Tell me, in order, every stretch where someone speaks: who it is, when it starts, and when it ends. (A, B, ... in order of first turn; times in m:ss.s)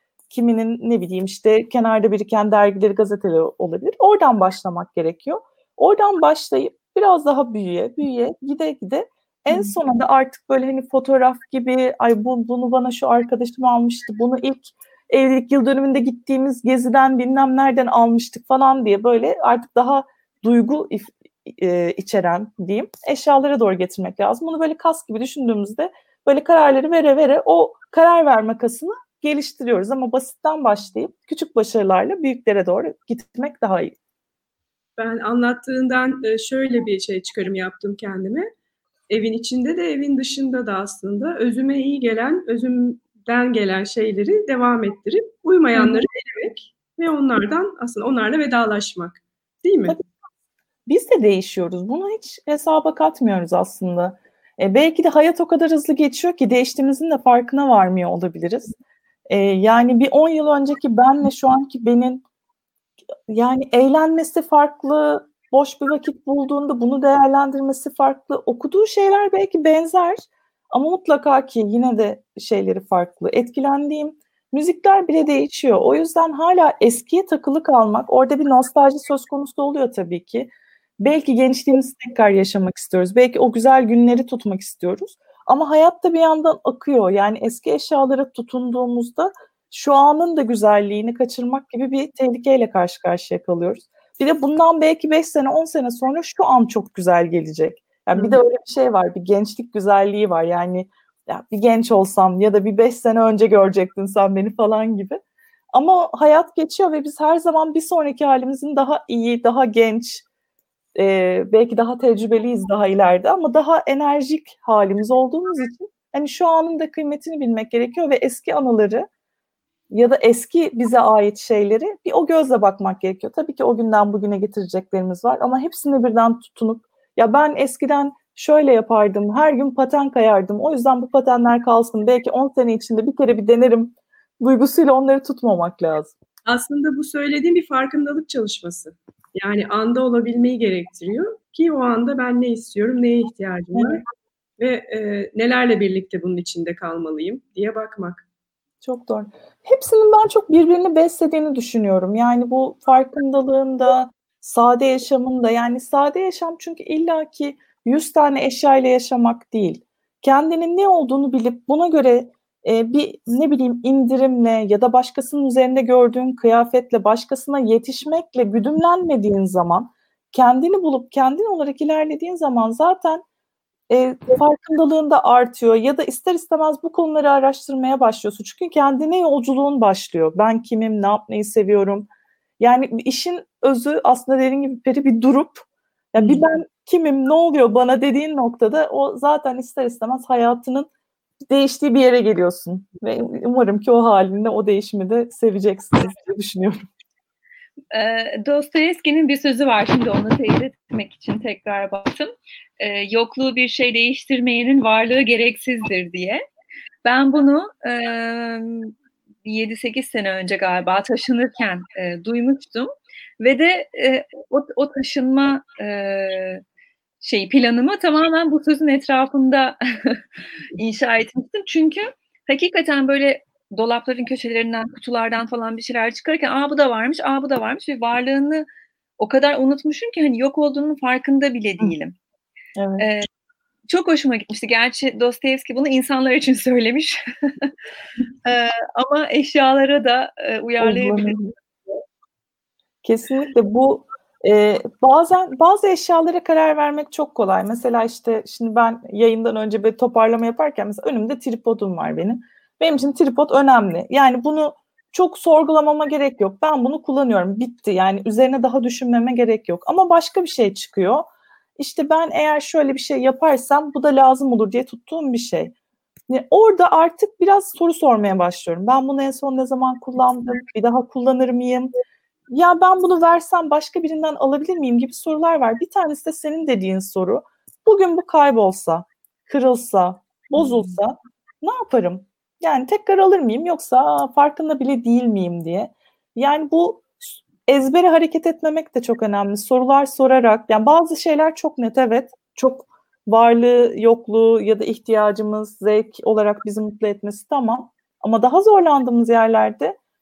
0:00.3-0:34.0 A
0:35.0-0:38.5 B
0:39.1-0:50.0 B
0:45.8-0:46.0 A
0:50.9-0:58.7 A
0:59.3-1:02.2 A
1:03.3-1:45.2 A
1:45.7-1:50.2 A
1:51.0-1:59.1 A
1:59.9-2:16.2 A
2:16.4-2:24.0 B
2:23.8-2:24.0 A
2:24.6-2:28.2 B
2:28.8-2:53.2 A
2:53.9-3:02.1 A
3:02.6-3:10.9 A
3:11.5-3:16.9 A
3:17.9-3:26.4 C
3:27.0-3:36.6 C
3:37.2-3:40.2 C
3:40.8-3:48.7 C
3:49.2-3:52.2 C
3:52.8-3:53.1 A
3:53.0-3:53.3 C
3:53.9-3:57.7 C
3:58.4-4:01.4 C
4:00.8-4:01.5 A
4:03.0-4:25.7 A
4:26.3-4:31.9 A
4:32.5-5:00.0 A
4:40.6-4:40.9 B